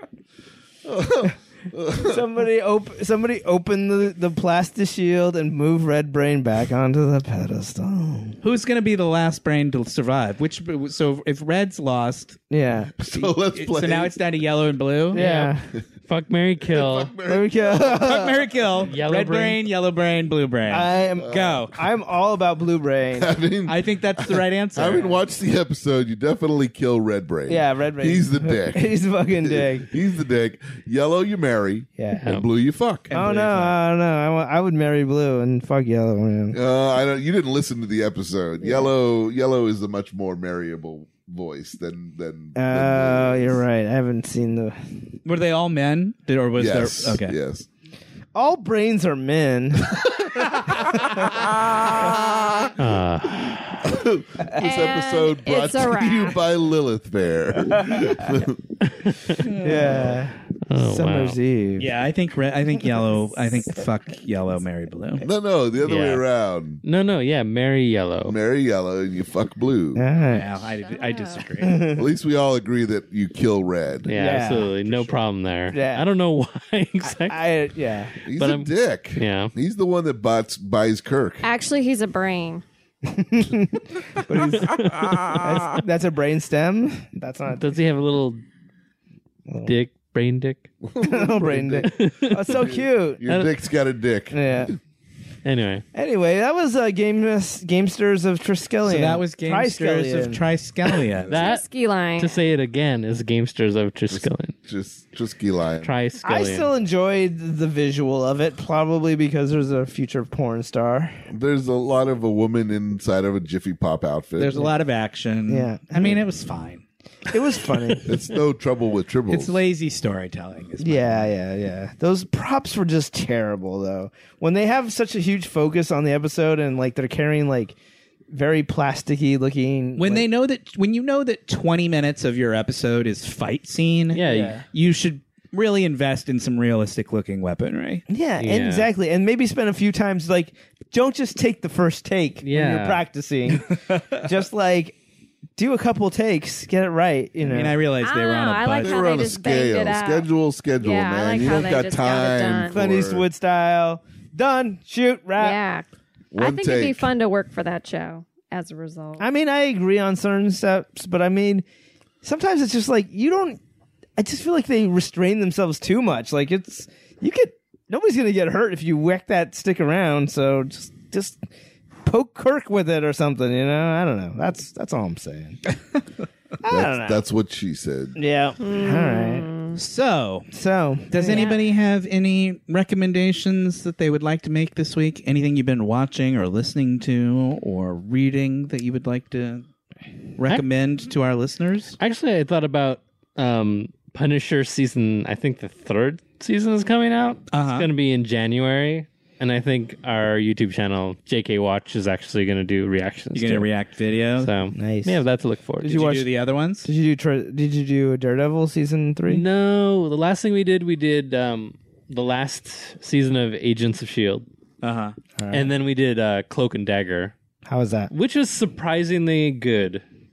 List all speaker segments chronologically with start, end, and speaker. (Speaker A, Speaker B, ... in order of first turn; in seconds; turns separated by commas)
Speaker A: 0.8-2.2, Speaker B: 1.9-8.4, Speaker C: 8.4-12.4, Speaker B: 12.5-12.9, Speaker A: 13.0-14.1, Speaker C: 13.1-15.2, Speaker B: 15.1-15.7, Speaker D: 15.1-17.1, Speaker A: 16.6-18.0, Speaker B: 17.3-18.6, Speaker C: 17.9-21.8, Speaker D: 18.8-19.6, Speaker B: 20.7-23.3, Speaker A: 21.2-21.6, Speaker A: 23.1-33.1, Speaker C: 23.7-25.2, Speaker B: 27.5-29.9, Speaker B: 32.0-32.3, Speaker C: 33.1-33.8, Speaker B: 33.1-36.6, Speaker A: 36.5-43.6, Speaker B: 38.6-38.9, Speaker B: 42.5-45.1, Speaker C: 45.2-47.4, Speaker A: 46.6-47.7, Speaker B: 48.3-50.0, Speaker A: 50.1-52.3, Speaker D: 52.8-53.8, Speaker A: 53.8-58.7, Speaker E: 54.6-56.4, Speaker D: 58.9-59.5, Speaker B: 59.6-61.9, Speaker C: 59.6-60.1, Speaker D: 60.7-61.4, Speaker C: 61.8-65.2, Speaker A: 65.2-66.8, Speaker D: 65.8-66.2, Speaker D: 66.8-68.4, Speaker A: 68.2-70.0, Speaker B: 69.9-70.5, Speaker C: 70.2-71.8, Speaker E: 70.8-71.4, Speaker B: 71.6-72.0, Speaker A: 72.0-74.2, Speaker D: 74.1-77.4, Speaker B: 74.1-74.8, Speaker A: 74.9-75.2, Speaker B: 75.7-76.1, Speaker B: 77.0-78.2, Speaker D: 78.2-79.5, Speaker A: 78.2-81.5, Speaker E: 81.4-82.6, Speaker B: 83.0-87.7, Speaker D: 84.6-85.4, Speaker D: 87.6-88.4, Speaker B: 89.5-89.8, Speaker D: 89.6-90.7, Speaker A: 90.8-94.7, Speaker B: 91.0-93.2, Speaker D: 91.9-92.5, Speaker D: 93.2-93.5, Speaker B: 94.3-94.8, Speaker D: 95.4-95.8, Speaker B: 95.9-100.4, Speaker C: 98.9-101.4, Speaker A: 101.1-101.5, Speaker D: 101.3-101.6, Speaker E: 101.3-102.5, Speaker D: 102.2-104.5, Speaker A: 104.1-105.9, Speaker D: 105.8-106.7, Speaker B: 106.2-111.3, Speaker A: 111.3-114.7, Speaker C: 114.4-117.4, Speaker B: 115.5-116.2, Speaker B: 117.3-118.2, Speaker A: 118.1-119.6, Speaker C: 119.3-121.3, Speaker B: 120.8-127.8, Speaker B: 128.3-130.3, Speaker C: 130.0-138.0, Speaker D: 134.1-134.6, Speaker B: 134.2-134.6, Speaker B: 138.1-144.9, Speaker D: 138.4-138.9, Speaker D: 142.4-143.0, Speaker B: 145.6-147.8, Speaker C: 147.4-149.0, Speaker E: 148.0-150.2, Speaker A: 148.8-153.3, Speaker E: 150.8-152.8, Speaker B: 152.7-155.6, Speaker E: 155.4-159.3, Speaker A: 156.3-157.1, Speaker B: 159.2-161.6, Speaker B: 162.2-163.6, Speaker B: 164.2-171.5, Speaker B: 172.0-175.6, Speaker B: 176.6-177.2, Speaker A: 176.7-178.2, Speaker B: 178.2-179.5, Speaker E: 178.6-179.8, Speaker C: 179.8-180.5, Speaker B: 180.5-181.5, Speaker C: 181.1-189.7, Speaker E: 181.3-181.7, Speaker C: 190.4-192.0, Speaker D: 192.0-203.7, Speaker C: 197.5-197.9, Speaker C: 203.3-204.5, Speaker D: 204.4-206.1, Speaker B: 204.7-205.2, Speaker B: 205.8-206.3, Speaker C: 205.8-206.9, Speaker B: 206.8-209.4, Speaker D: 209.3-214.4, Speaker C: 214.8-215.2, Speaker B: 215.4-215.7, Speaker D: 215.5-217.3, Speaker B: 217.6-218.1, Speaker D: 218.1-220.0